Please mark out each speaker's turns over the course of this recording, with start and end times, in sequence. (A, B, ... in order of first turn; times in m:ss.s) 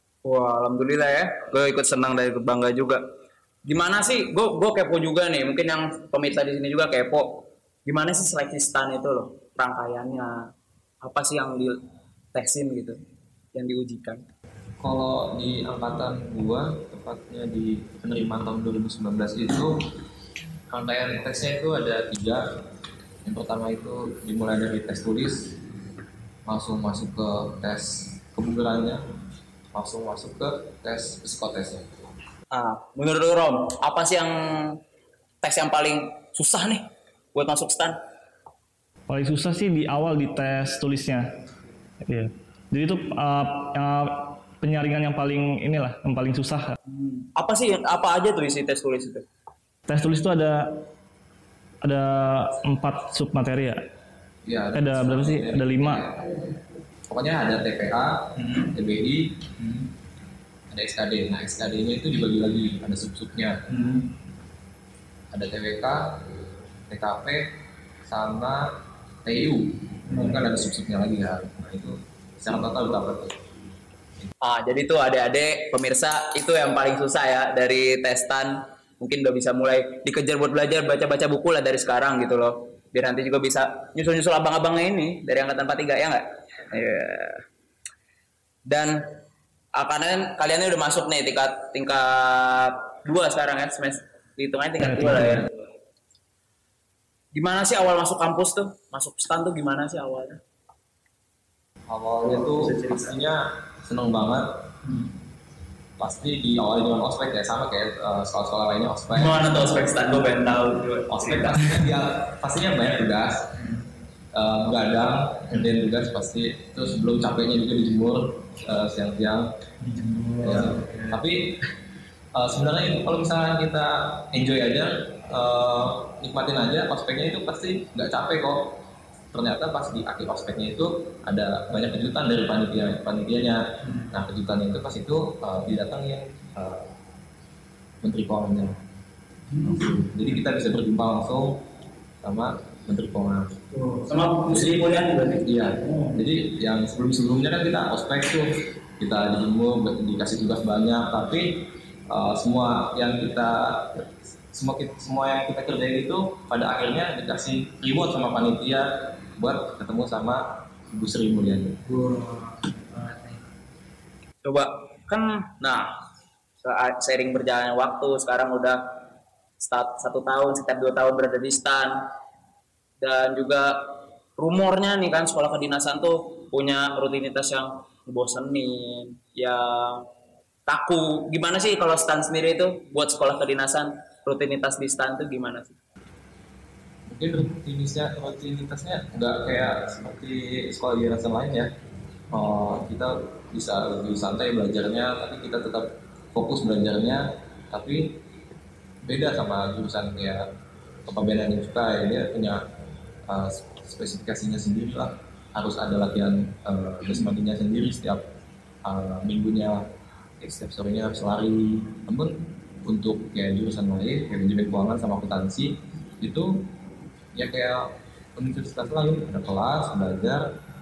0:00.2-0:03.0 A
0:03.7-0:10.5 A
0:11.0-0:11.8 A
0:12.3-0:13.0 A
0:13.5-0:14.2 A
0:14.8-0:19.8 B
0:20.7-0:22.4 B
0:23.2-0:25.6 B
0:26.5-0:29.0 B
0:29.7-0:31.8 B
0:32.5-0:34.8 A
0:35.4-0:38.0 A
0:39.1-0:41.3 C
0:42.0-0:46.8 C
0:46.9-0:49.2 A
0:49.9-0:50.8 C
0:51.8-0:53.8 C
0:54.4-0:56.4 B
0:54.7-0:56.0 C
0:57.1-0:59.5 B
1:00.7-1:03.8 B
1:05.3-1:06.3 B
1:06.9-1:07.5 B
1:08.0-1:08.7 B
1:09.2-1:13.4 B
1:14.4-1:27.4 A
1:28.7-1:29.1 A
1:29.7-1:35.5 A
1:34.8-1:35.4 C
1:37.3-1:40.4 A
1:41.9-1:44.6 B
1:42.4-1:43.1 A
1:46.0-1:49.5 B
1:49.1-1:51.7 A
1:51.1-1:53.6 B
1:54.3-1:59.5 B
1:59.9-2:00.3 A
2:00.4-2:01.6 B
2:02.3-2:08.8 B
2:09.3-2:16.9 B
2:18.0-2:18.8 B
2:19.6-2:21.6 B
2:22.2-2:23.5 B
2:23.7-2:26.1 A
2:24.5-2:24.8 B
2:25.4-2:41.8 B
2:42.0-2:42.5 A
2:44.4-2:45.9 A
2:46.6-2:48.8 A
2:49.6-2:52.0 A
2:53.0-3:00.0 A
3:00.7-3:05.8 A
3:07.1-3:11.7 B
3:12.3-3:18.2 B
3:19.0-3:20.4 B
3:21.0-3:22.6 B
3:23.3-3:28.2 B
3:28.8-3:29.8 B
3:30.4-3:36.7 B
3:37.3-3:40.5 B